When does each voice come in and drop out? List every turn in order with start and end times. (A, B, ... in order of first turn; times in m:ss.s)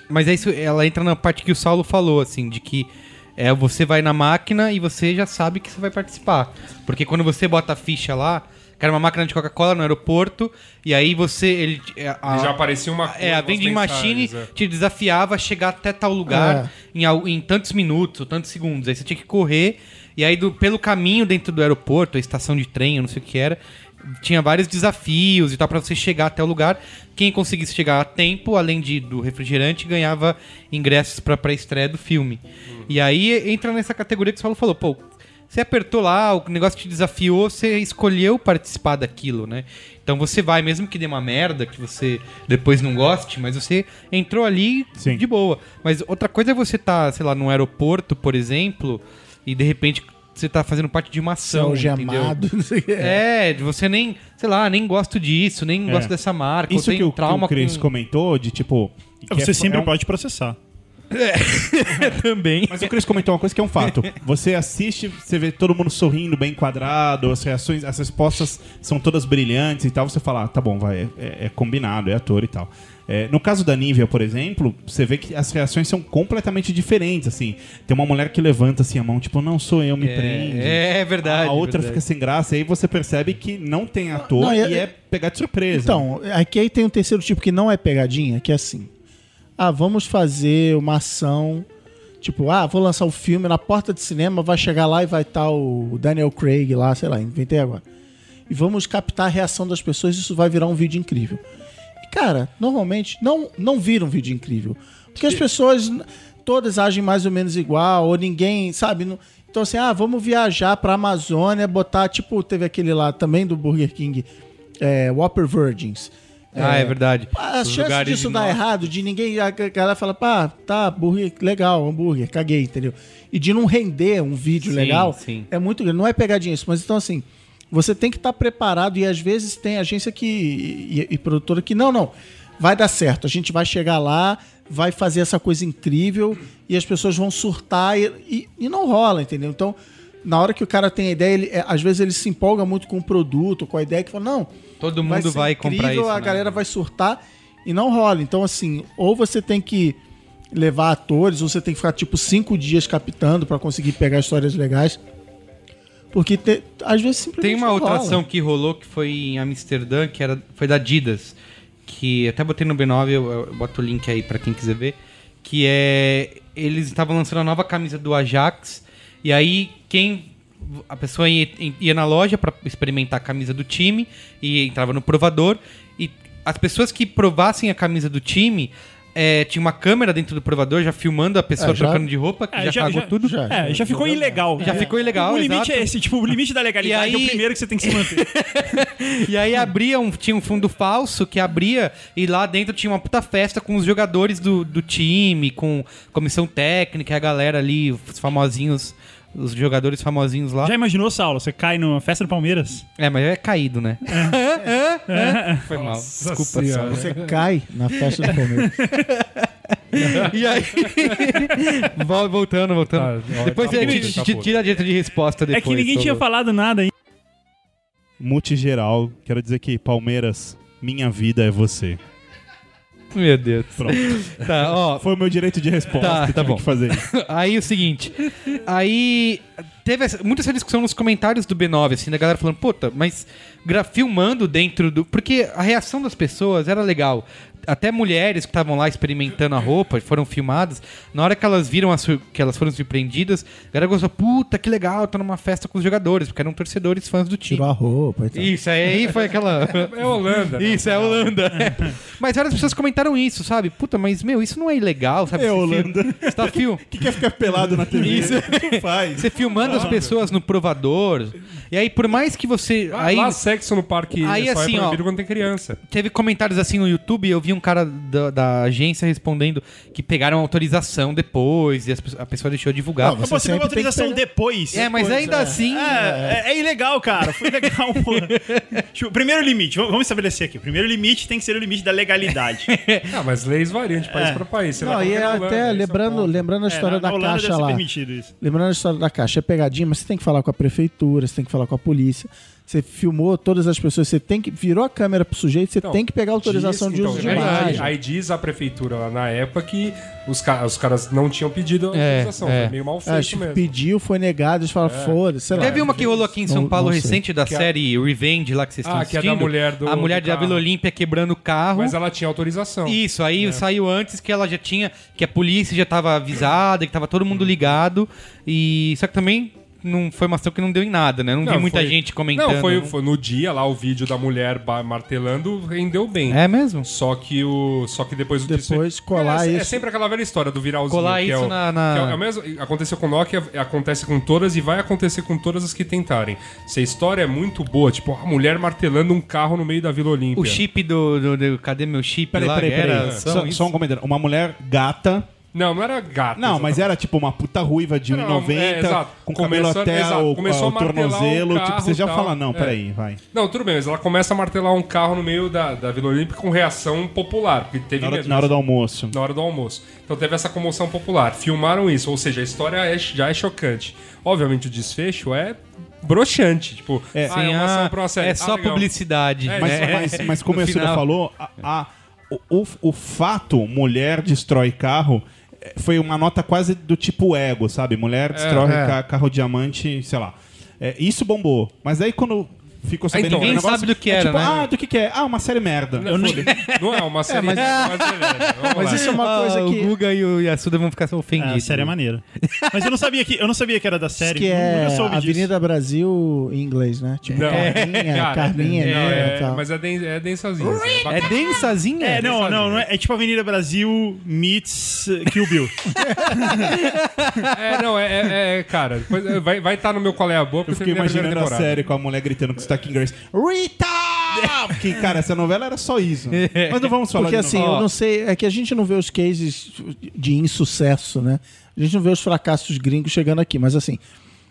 0:00.1-0:12.6 A
0:12.3-0:14.5 B
0:13.1-0:52.4 A
0:16.3-0:16.7 C
0:45.0-0:45.2 D
0:51.5-0:53.2 C
0:53.0-0:57.9 A
0:55.9-0:56.1 D
0:56.7-0:59.9 D
0:59.3-1:00.6 E
1:01.1-1:02.9 A
1:02.7-1:26.1 D
1:03.8-1:04.1 A
1:20.0-1:22.0 A
1:24.2-1:24.9 C
1:25.7-1:28.9 C
1:29.6-1:31.7 C
1:32.2-1:37.8 C
1:38.5-1:41.4 C
1:42.0-1:54.3 C
1:54.8-2:24.5 C
1:56.6-1:58.6 A
2:04.6-2:05.5 A
2:24.8-2:26.6 A
2:25.0-2:30.0 C
2:30.5-2:35.0 C
2:36.1-2:38.2 C
2:37.4-2:41.4 A
2:41.9-3:05.9 A
3:01.6-3:02.1 C
3:02.5-3:08.2 E
3:03.2-3:04.9 C
3:06.8-3:20.7 A
3:20.6-3:22.8 E
3:23.0-3:27.1 A
3:24.1-3:24.4 E
3:25.1-3:25.7 E
3:25.7-3:27.4 B
3:26.9-3:28.8 C
3:28.2-3:36.2 A
3:28.6-3:29.0 E
3:30.0-3:31.4 B
3:33.0-3:34.5 B
3:33.6-3:34.2 D
3:35.5-3:36.9 E
3:38.2-3:42.0 D
3:43.1-3:45.1 A
3:43.8-3:47.1 D
3:46.0-4:07.6 A
4:07.5-4:08.5 C
4:08.3-4:09.9 A
4:09.6-4:11.4 B
4:10.6-4:16.8 A
4:11.6-4:11.9 E
4:15.4-4:19.3 D
4:18.0-4:23.4 A
4:19.6-4:20.1 B
4:22.9-4:25.8 B
4:24.2-4:25.0 A
4:25.9-4:33.2 A
4:33.0-4:34.2 C
4:33.2-4:42.7 E
4:34.7-4:36.1 A
4:34.7-4:36.4 C
4:37.4-4:38.8 A
4:42.7-4:43.1 A
4:43.1-4:46.4 B
4:44.1-4:44.4 E
4:44.8-4:47.8 C
4:46.7-4:48.3 E
4:48.4-4:57.9 C
4:55.8-5:03.8 B
4:57.1-4:57.9 A
5:01.9-5:02.7 A
5:03.1-5:07.7 C
5:04.8-5:06.1 B
5:05.6-5:12.0 A
5:08.8-5:10.6 B
5:11.8-5:13.6 B
5:12.9-5:22.9 A
5:17.3-5:17.7 B
5:21.4-5:40.6 B
5:26.3-5:26.9 A
5:28.5-5:29.8 C
5:30.9-5:32.2 A
5:40.4-5:43.7 A
5:42.3-5:45.3 D
5:45.5-5:46.9 B
5:46.4-5:53.2 D
5:48.1-5:52.8 B
5:53.3-5:58.6 B
5:58.0-5:59.2 D
5:59.1-6:08.9 B
6:07.3-6:11.0 A
6:09.4-6:10.2 B
6:09.6-6:26.4 D
6:18.3-6:18.8 B
6:23.1-6:23.8 B
6:23.2-6:24.6 A
6:26.0-6:29.2 B
6:26.0-6:26.6 E
6:26.4-6:32.9 A
6:27.3-6:28.0 C
6:28.7-6:29.9 C
6:31.4-6:35.5 E
6:34.2-6:39.6 C
6:37.3-6:41.7 B
6:37.4-6:38.2 A
6:38.8-6:39.4 A
6:40.6-6:42.8 A
6:42.0-6:46.7 E
6:42.2-6:42.7 B
6:46.0-6:47.6 A
6:47.5-6:51.8 B
6:50.7-6:57.7 D
6:54.3-6:54.8 A
6:56.3-6:56.9 A
6:57.1-7:04.0 C
6:57.5-6:57.9 A